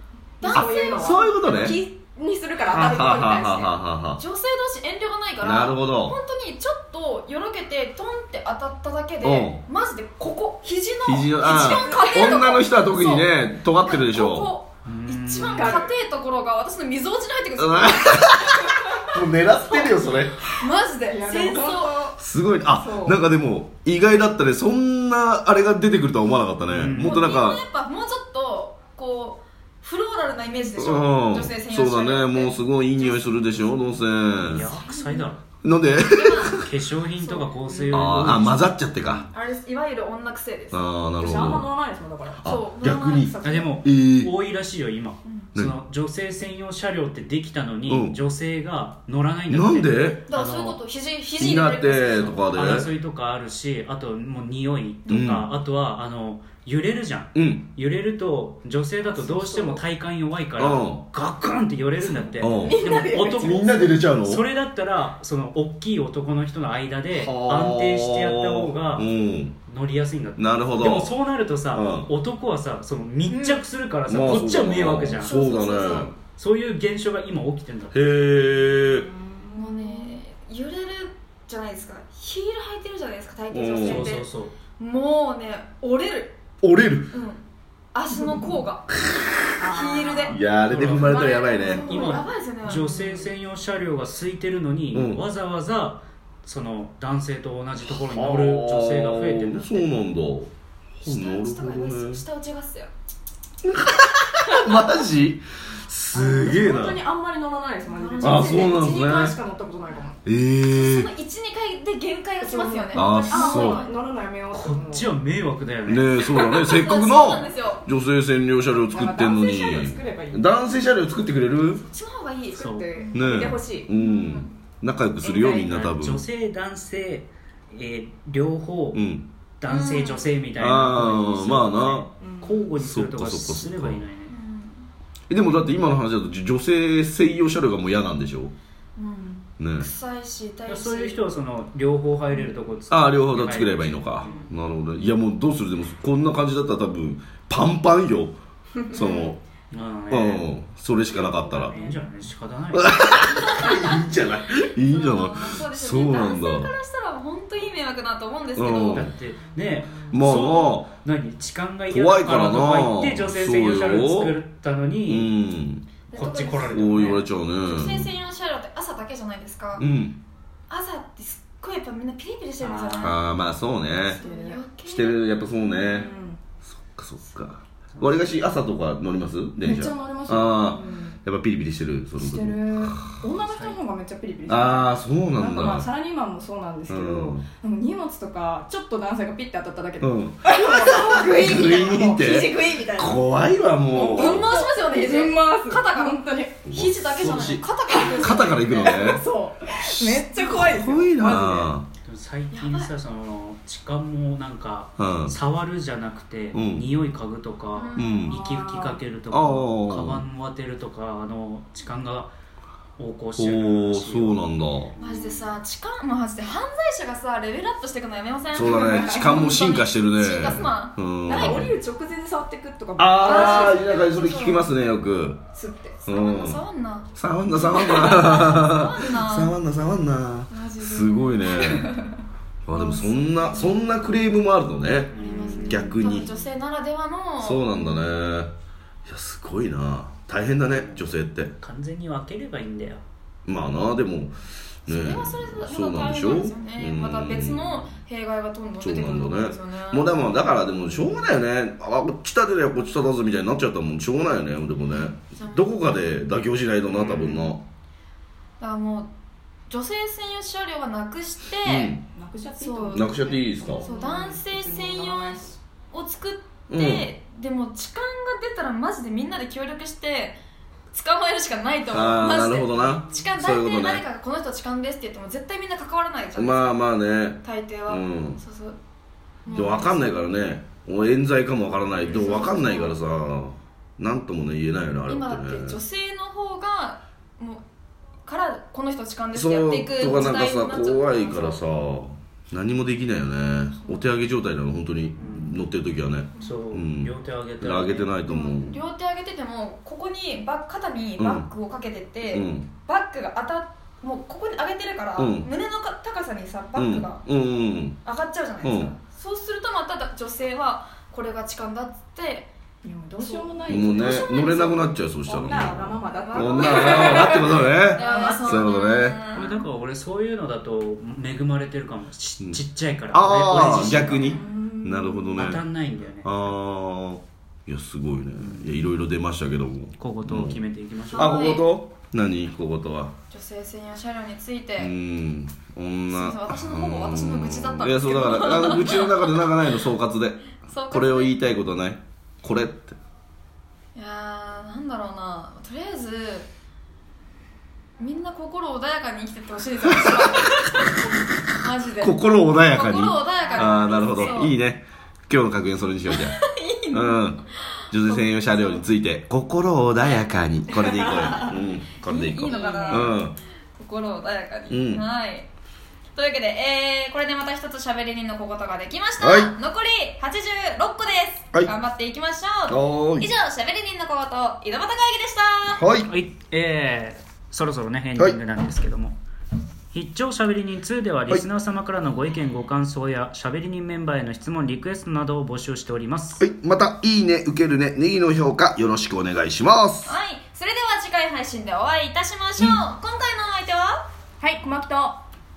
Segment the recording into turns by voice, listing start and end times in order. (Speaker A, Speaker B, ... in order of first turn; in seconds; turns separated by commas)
Speaker A: 0.4-1.8, Speaker B: 0.4-3.7, Speaker C: 0.5-1.8, Speaker C: 2.7-4.2, Speaker A: 4.2-18.7, Speaker C: 5.4-6.2, Speaker C: 9.2-9.6, Speaker C: 11.0-14.5, Speaker B: 11.4-12.0, Speaker D: 14.8-15.7, Speaker B: 15.4-15.9, Speaker C: 17.6-20.4, Speaker A: 19.7-22.1, Speaker B: 21.1-22.1, Speaker C: 22.2-27.6, Speaker B: 22.7-23.2, Speaker D: 26.7-27.2, Speaker A: 27.0-33.8, Speaker C: 30.8-34.6, Speaker D: 34.4-35.4, Speaker A: 34.8-35.2, Speaker C: 35.6-36.7, Speaker A: 36.0-36.6, Speaker D: 36.6-39.2, Speaker A: 37.2-38.1, Speaker C: 37.9-39.3, Speaker A: 39.3-40.8, Speaker C: 40.7-41.7, Speaker B: 41.2-42.5, Speaker C: 42.4-44.3, Speaker A: 42.4-43.4, Speaker B: 43.2-43.7, Speaker D: 43.4-50.8, Speaker C: 47.9-48.2, Speaker C: 49.5-50.2, Speaker A: 50.3-52.4, Speaker C: 51.4-52.9, Speaker D: 52.4-63.7, Speaker C: 55.1-55.5, Speaker C: 57.3-57.7, Speaker B: 59.1-59.8, Speaker C: 60.6-61.0, Speaker C: 62.4-62.9, Speaker B: 62.4-64.0, Speaker C: 63.4-64.4, Speaker D: 64.2-69.1, Speaker C: 67.1-69.5, Speaker D: 69.7-75.5, Speaker C: 70.4-71.1, Speaker C: 71.7-72.1, Speaker B: 73.3-73.6, Speaker C: 74.1-76.1, Speaker A: 75.2-76.1, Speaker D: 76.3-78.0, Speaker C: 77.9-79.1, Speaker B: 78.9-80.2, Speaker A: 79.5-86.4, Speaker C: 83.5-84.1, Speaker D: 83.8-84.5, Speaker C: 86.6-87.1, Speaker A: 87.1-87.4, Speaker A: 87.9-89.0, Speaker B: 88.1-88.6, Speaker B: 89.5-90.5, Speaker A: 89.7-92.9, Speaker C: 90.3-91.8, Speaker D: 90.6-91.2, Speaker B: 91.7-93.3, Speaker D: 91.8-99.9, Speaker C: 94.9-95.2, Speaker C: 97.8-102.2, Speaker A: 101.0-102.9, Speaker C: 103.6-107.0, Speaker B: 106.1-110.2, Speaker A: 107.9-108.8, Speaker C: 108.2-109.4, Speaker C: 110.2-111.1, Speaker A: 110.7-114.0, Speaker B: 112.4-115.1, Speaker C: 112.9-113.8, Speaker D: 114.5-116.1, Speaker C: 115.8-121.8, Speaker A: 116.3-117.8, Speaker B: 118.7-120.5, Speaker A: 121.7-124.5, Speaker B: 122.5-123.9, Speaker D: 122.5-122.8, Speaker C: 123.1-126.2, Speaker D: 125.2-129.0, Speaker C: 128.9-129.2, Speaker D: 129.6-134.3, Speaker A: 129.7-130.2, Speaker C: 130.6-132.1, Speaker B: 132.2-132.6, Speaker C: 132.7-134.0, Speaker A: 134.3-134.9, Speaker C: 135.3-138.5, Speaker A: 138.9-141.2, Speaker C: 139.6-139.9, Speaker D: 140.7-144.5, Speaker C: 142.9-148.4, Speaker C: 148.9-149.4, Speaker A: 148.9-149.3, Speaker D: 149.7-150.5, Speaker C: 150.1-151.8, Speaker B: 151.1-152.1, Speaker D: 151.7-152.9, Speaker C: 152.7-156.7, Speaker A: 153.5-153.9, Speaker A: 154.9-159.1, Speaker C: 158.6-159.1, Speaker D: 158.9-165.3, Speaker C: 160.1-160.9, Speaker C: 161.9-164.4, Speaker C: 165.1-165.9, Speaker A: 166.1-169.8, Speaker D: 166.1-167.3, Speaker C: 166.6-168.1, Speaker C: 169.8-170.2, Speaker A: 170.7-173.2, Speaker D: 172.6-173.1, Speaker C: 173.0-174.2, Speaker B: 174.1-174.6, Speaker A: 174.1-175.2, Speaker C: 174.8-176.1, Speaker B: 175.7-176.4, Speaker A: 175.8-176.2, Speaker C: 176.7-183.2, Speaker B: 179.6-181.2, Speaker B: 182.2-193.2, Speaker D: 183.4-183.8, Speaker C: 184.5-185.9, Speaker C: 186.9-187.4, Speaker C: 190.0-194.5, Speaker A: 193.9-198.9, Speaker B: 193.9-196.7, Speaker C: 196.7-197.7, Speaker B: 197.9-201.7, Speaker C: 198.2-199.2, Speaker C: 199.8-201.9, Speaker D: 202.0-212.3, Speaker A: 202.5-202.9, Speaker C: 205.0-205.3, Speaker C: 206.5-206.9, Speaker A: 207.7-208.2, Speaker C: 207.9-208.4, Speaker B: 208.1-209.0, Speaker C: 209.3-210.2, Speaker D: 213.0-214.4, Speaker C: 213.4-214.9, Speaker B: 215.0-215.5, Speaker A: 215.0-221.6, Speaker C: 218.5-221.7, Speaker B: 218.6-219.6, Speaker B: 221.2-223.9, Speaker C: 223.0-225.4, Speaker A: 223.2-224.7, Speaker A: 225.6-227.1, Speaker C: 226.1-226.6, Speaker C: 227.1-232.0, Speaker A: 227.6-229.5, Speaker B: 227.7-228.2, Speaker A: 230.5-232.1, Speaker C: 232.7-236.3, Speaker A: 232.7-233.8, Speaker D: 235.1-236.0, Speaker A: 235.1-238.0, Speaker C: 237.4-238.5, Speaker C: 239.1-241.5, Speaker D: 240.7-243.0, Speaker C: 243.5-244.3, Speaker C: 244.8-247.9, Speaker A: 244.9-250.2, Speaker C: 248.8-257.6, Speaker A: 255.1-255.7, Speaker A: 257.0-257.5, Speaker A: 258.6-259.1, Speaker A: 259.7-261.9, Speaker C: 261.6-262.0, Speaker B: 262.0-265.6, Speaker A: 262.6-263.2, Speaker C: 262.9-263.9, Speaker A: 263.8-270.4, Speaker C: 266.7-267.1, Speaker A: 270.9-276.8, Speaker C: 271.9-274.0, Speaker C: 276.3-278.4, Speaker A: 277.4-278.8, Speaker A: 279.4-280.1, Speaker C: 279.5-285.8, Speaker A: 282.0-283.0, Speaker A: 285.1-287.6, Speaker A: 288.2-291.6, Speaker C: 289.3-298.8, Speaker D: 295.2-295.6, Speaker D: 296.4-298.1, Speaker A: 298.3-307.2, Speaker C: 301.2-301.4, Speaker C: 302.3-302.7, Speaker C: 305.2-305.5, Speaker C: 306.8-308.0, Speaker A: 308.0-312.5, Speaker C: 308.6-308.9, Speaker B: 312.8-318.7, Speaker A: 313.2-314.5, Speaker C: 313.7-319.2, Speaker A: 316.1-319.6, Speaker D: 319.3-324.4, Speaker C: 323.1-325.6, Speaker B: 323.7-325.6, Speaker D: 325.4-326.5, Speaker C: 326.2-330.6, Speaker D: 328.4-328.8, Speaker D: 330.0-331.5, Speaker A: 331.1-331.7, Speaker C: 331.1-333.1, Speaker A: 333.3-334.9, Speaker C: 334.8-343.0, Speaker A: 336.1-339.3, Speaker A: 340.6-341.4, Speaker A: 343.9-346.5, Speaker A: 348.0-354.5, Speaker C: 350.0-350.6, Speaker C: 351.9-356.4, Speaker B: 353.4-354.4, Speaker A: 356.1-357.3, Speaker C: 356.9-363.4, Speaker A: 357.8-358.8, Speaker A: 362.0-363.2, Speaker B: 362.5-363.0, Speaker A: 363.8-365.5, Speaker C: 364.7-365.0, Speaker A: 366.1-375.8, Speaker C: 369.2-369.5, Speaker C: 372.7-373.3, Speaker C: 375.7-376.1, Speaker D: 376.1-379.2, Speaker D: 379.9-386.4, Speaker C: 386.4-390.1, Speaker A: 390.0-394.1, Speaker D: 392.6-392.8, Speaker B: 394.4-395.2